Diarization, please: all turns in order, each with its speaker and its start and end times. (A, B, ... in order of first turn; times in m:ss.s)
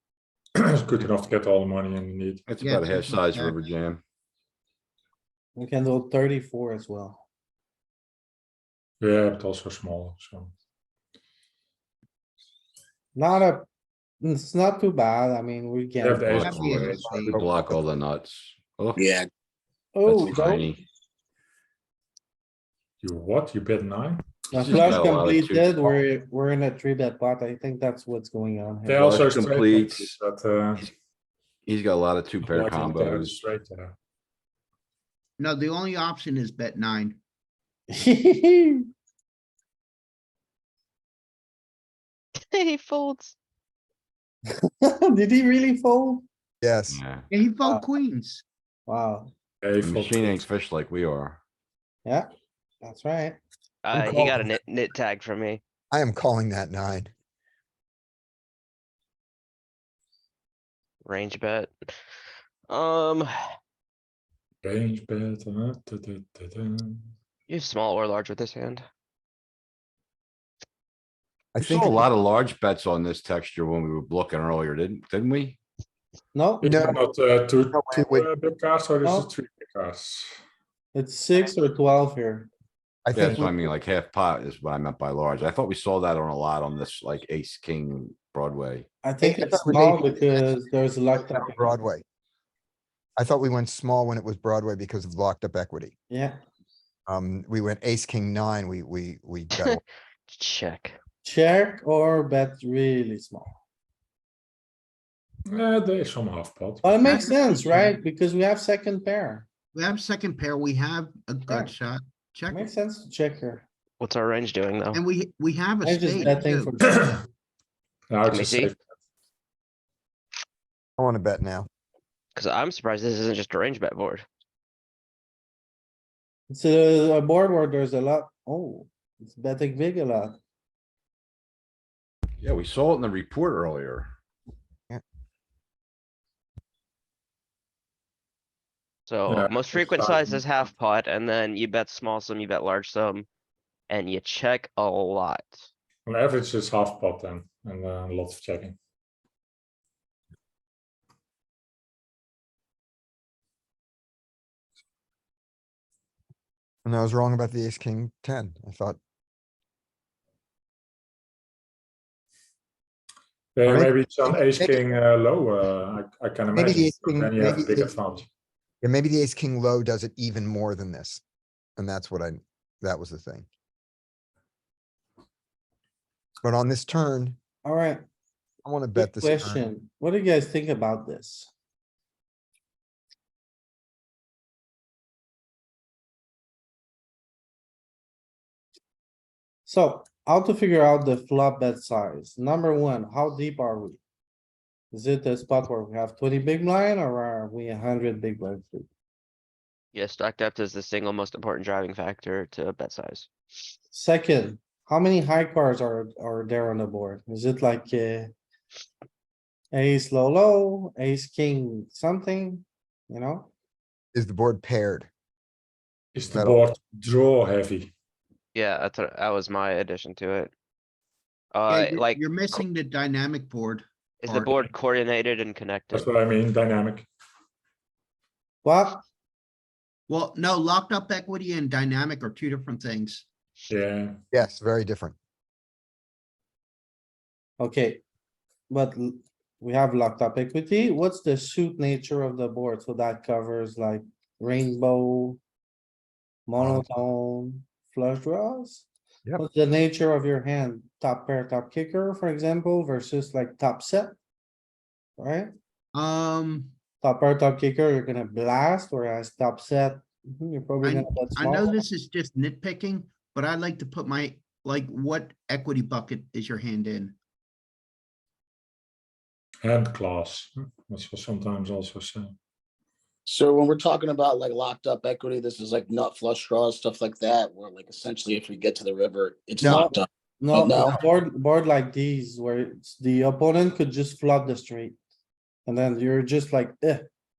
0:00.6-0:02.4 A
0:02.5-0:04.0 B
0:02.6-0:03.6 C
0:05.6-0:07.2 D
0:09.0-0:10.5 A
0:13.1-0:13.7 D
0:14.2-0:16.5 D
0:16.0-0:17.4 A
0:16.2-0:19.1 B
0:16.4-0:17.4 C
0:17.0-0:17.6 E
0:19.0-0:19.3 F
0:19.9-0:20.7 D
0:20.0-0:20.8 B
0:23.0-0:25.1 A
0:24.5-0:29.0 D
0:24.5-0:26.0 B
0:28.8-0:30.9 A
0:29.0-0:30.2 B
0:31.6-0:33.4 B
0:32.4-0:33.9 A
0:35.4-0:37.2 C
0:37.9-0:38.9 D
0:42.5-0:43.4 G
0:44.6-0:46.2 D
0:46.6-0:47.0 E
0:46.9-0:47.3 B
0:47.3-0:48.4 C
0:48.9-0:49.3 D
0:49.6-0:50.3 A
0:49.8-0:51.4 B
0:52.8-0:53.4 D
0:53.8-0:55.6 G
0:55.9-0:57.1 E
1:01.0-1:01.7 G
1:02.7-1:03.3 G
1:04.6-1:07.1 A
1:07.5-1:08.8 G
1:11.5-1:12.1 E
1:11.6-1:15.6 B
1:16.3-1:16.7 D
1:16.6-1:20.4 A
1:16.6-1:17.0 E
1:17.7-1:18.3 E
1:19.0-1:19.3 D
1:20.9-1:22.5 D
1:23.0-1:23.7 E
1:23.1-1:28.9 B
1:29.0-1:31.8 D
1:29.2-1:30.4 E
1:31.1-1:32.0 E
1:33.2-1:35.9 E
1:36.1-1:36.4 D
1:37.1-1:39.8 E
1:39.6-1:41.0 G
1:41.2-1:43.6 D
1:45.5-1:47.2 A
1:46.8-1:49.5 D
1:47.0-1:48.0 C
1:49.7-1:52.7 C
1:51.5-1:51.7 D
1:52.5-1:53.6 D
1:54.0-1:55.0 G
1:54.9-1:56.8 C
1:55.8-1:57.2 D
1:56.8-1:57.2 A
1:58.1-1:58.8 A
1:58.3-1:58.7 G
2:01.0-2:01.7 E
2:02.3-2:04.2 G
2:06.5-2:10.4 D
2:12.4-2:14.1 B
2:19.1-2:23.3 G
2:19.3-2:20.4 A
2:23.9-2:25.6 G
2:26.0-2:28.8 A
2:36.8-2:39.0 E
2:43.5-2:48.3 A
2:43.6-2:44.7 E
2:46.5-2:47.9 E
2:48.8-2:51.2 E
2:51.8-2:53.5 E
2:56.4-2:57.4 E
2:57.6-2:58.0 D
2:58.6-2:59.7 E
2:58.9-3:01.5 D
3:09.6-3:14.0 D
3:14.9-3:18.9 D
3:19.9-3:23.3 G
3:23.9-3:28.3 D
3:29.7-3:33.5 D
3:34.1-3:35.1 E
3:36.1-3:37.9 A
3:36.3-3:36.6 E
3:38.5-3:40.5 G
3:41.5-3:42.2 G
3:41.7-3:44.5 C
3:44.2-3:46.1 G
3:45.9-3:47.1 A
3:48.6-3:49.0 D
3:50.1-3:53.2 C
3:53.7-3:54.2 A
3:54.3-3:55.2 E
3:57.6-3:58.0 D
3:58.7-4:05.4 D
4:06.5-4:14.2 D
4:06.6-4:06.8 E
4:15.2-4:15.5 D
4:15.9-4:16.7 C
4:17.0-4:21.8 D
4:20.8-4:27.2 C
4:29.6-4:32.4 A
4:33.2-4:41.0 F
4:39.6-4:39.9 E
4:39.6-4:45.0 D
4:45.6-4:47.1 D